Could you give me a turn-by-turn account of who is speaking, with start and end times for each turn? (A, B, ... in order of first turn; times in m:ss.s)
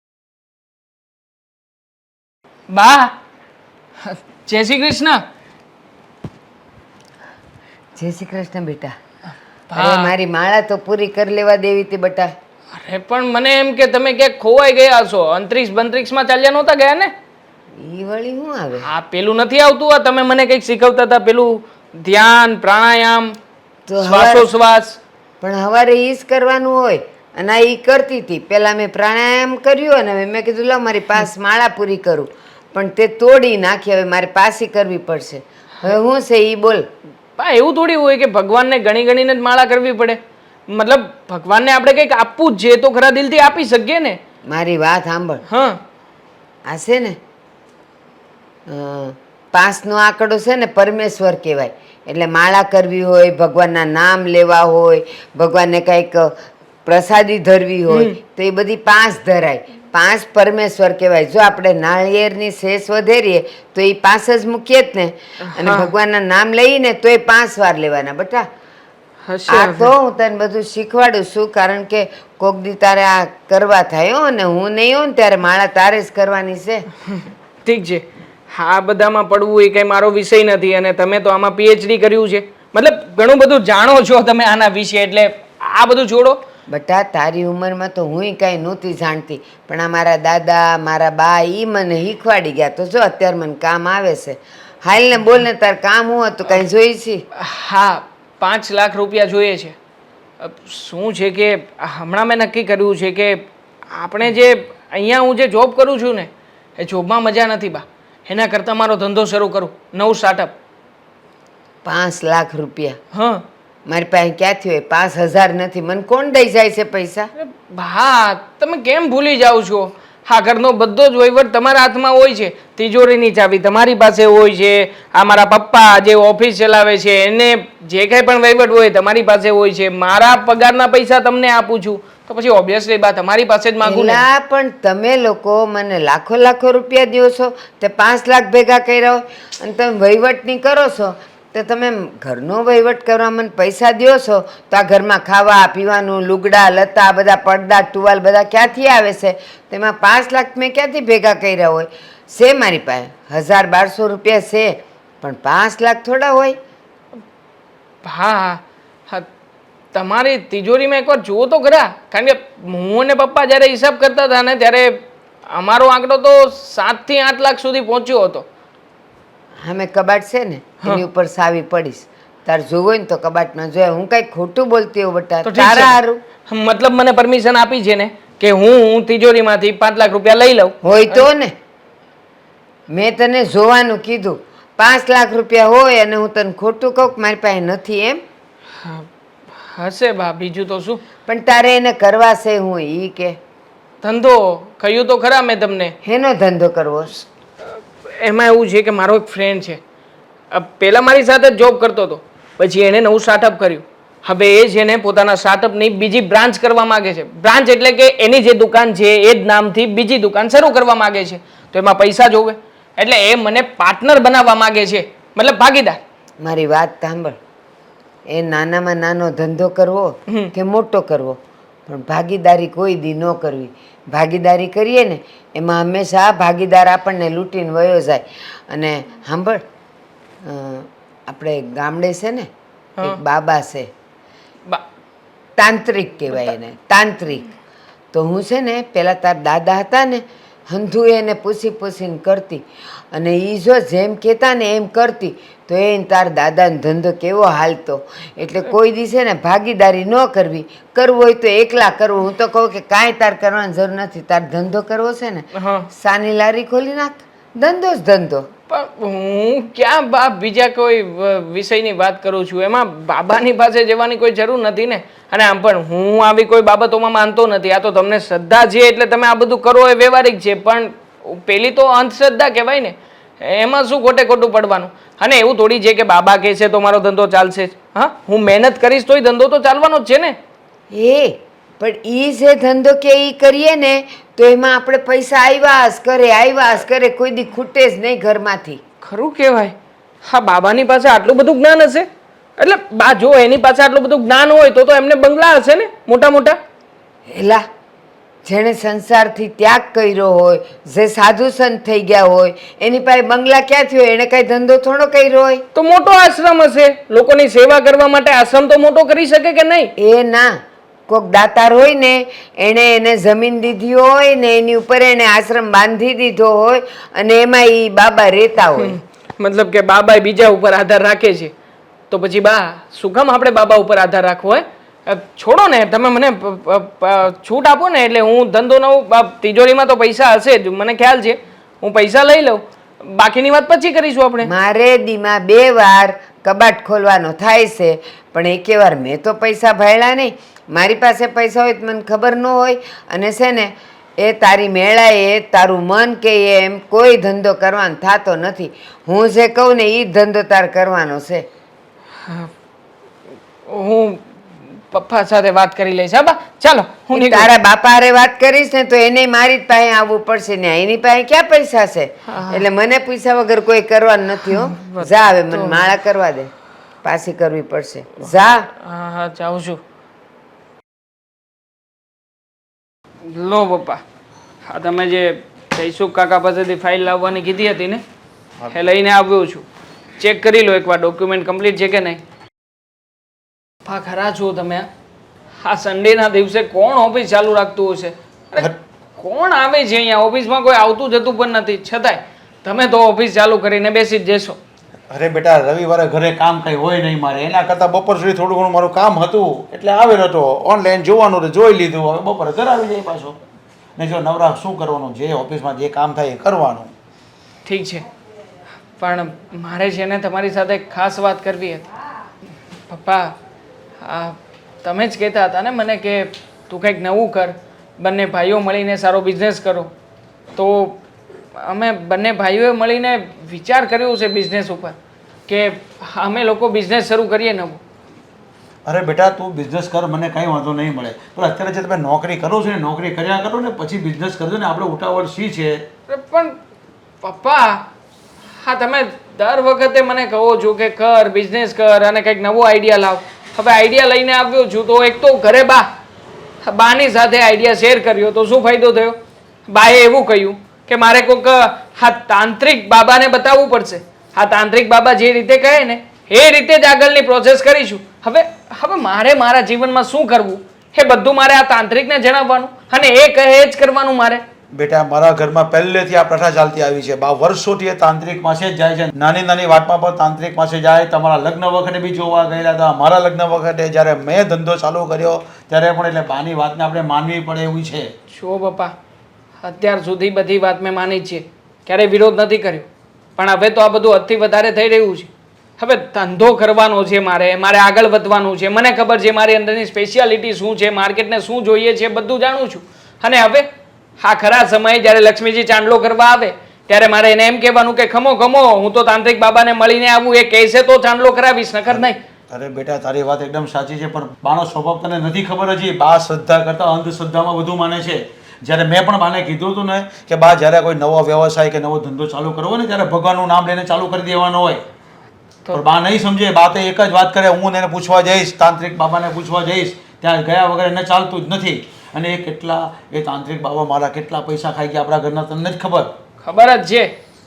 0:02.7-0:03.1 A
0:04.0-0:05.2 A
0:08.0-0:08.9 B
0:09.7-0:10.1 A
0:09.7-0:12.3 B
0:12.8-0:17.1 A
0:17.8-0:18.8 B
0:18.8-0:23.4 A
0:23.9-0:24.5 B
0:24.0-0:25.0 A
0:25.4-0:36.9 B
0:37.4-0:44.2 A
0:44.5-0:45.4 B
0:45.5-0:45.8 A
0:46.6-0:47.2 B
0:48.7-0:56.3 B
0:56.8-1:08.4 B
0:57.9-0:58.1 A
1:05.5-1:05.9 A
1:09.3-1:09.9 A
1:09.5-1:16.8 B
1:17.6-1:26.4 A
1:26.7-1:37.2 B
1:37.4-1:39.7 A
1:40.4-1:50.5 A
1:51.8-1:53.0 B
1:53.1-1:53.4 A
1:53.8-1:57.3 B
1:57.4-2:14.2 A
2:13.8-2:36.6 B
2:38.0-2:39.3 A
2:39.9-2:48.4 A
2:49.6-2:56.2 B
2:55.4-3:01.2 A
3:00.8-3:01.5 B
3:02.9-3:08.2 B
3:08.8-3:11.0 A
3:11.3-3:13.4 B
3:14.0-3:15.9 A
3:16.0-3:17.1 B
3:17.7-3:19.8 A
3:20.5-3:36.0 A
3:36.4-3:37.4 B
3:38.3-3:49.6 B
3:50.4-3:52.5 B
3:53.0-3:53.9 B
3:55.6-3:57.4 B
3:58.1-4:18.5 B
4:15.6-4:15.8 A
4:18.7-4:40.4 A
4:40.9-4:48.8 B
4:49.0-4:52.1 A
4:52.6-4:56.6 A
4:57.3-4:57.6 B
4:58.4-5:05.6 B
5:05.7-5:09.9 A
5:10.0-5:10.5 B
5:11.1-5:19.0 B
5:18.7-5:21.5 A
5:22.1-5:34.5 A
5:34.4-5:51.4 B
5:53.7-5:54.3 A
5:54.9-5:57.5 A
5:57.1-6:06.5 B
6:02.3-6:02.7 A
6:04.5-6:05.9 A
6:07.0-6:08.7 B
6:08.8-6:09.8 A
6:13.3-6:14.0 A
6:14.7-6:18.0 A
6:18.7-6:19.6 A
6:20.2-6:22.2 A
6:23.8-6:24.9 A
6:25.6-6:34.6 A
6:35.1-6:43.4 C
6:44.0-6:46.9 C
6:47.6-6:48.0 A
6:49.0-6:51.8 A
6:52.9-6:53.3 A
6:54.0-6:59.9 A
7:00.5-7:01.0 A
7:01.6-7:05.0 A
7:05.5-7:07.8 A
7:08.8-7:15.8 C
7:16.1-7:16.5 A
7:17.2-7:17.8 A
7:18.6-7:25.9 A
7:26.6-7:44.4 A
7:44.7-7:58.1 C
7:58.3-7:58.9 A
7:59.6-8:02.8 A
8:03.4-8:13.6 A
8:14.2-8:22.2 A
8:21.9-8:34.8 C
8:35.7-8:46.1 C
8:46.4-8:47.1 A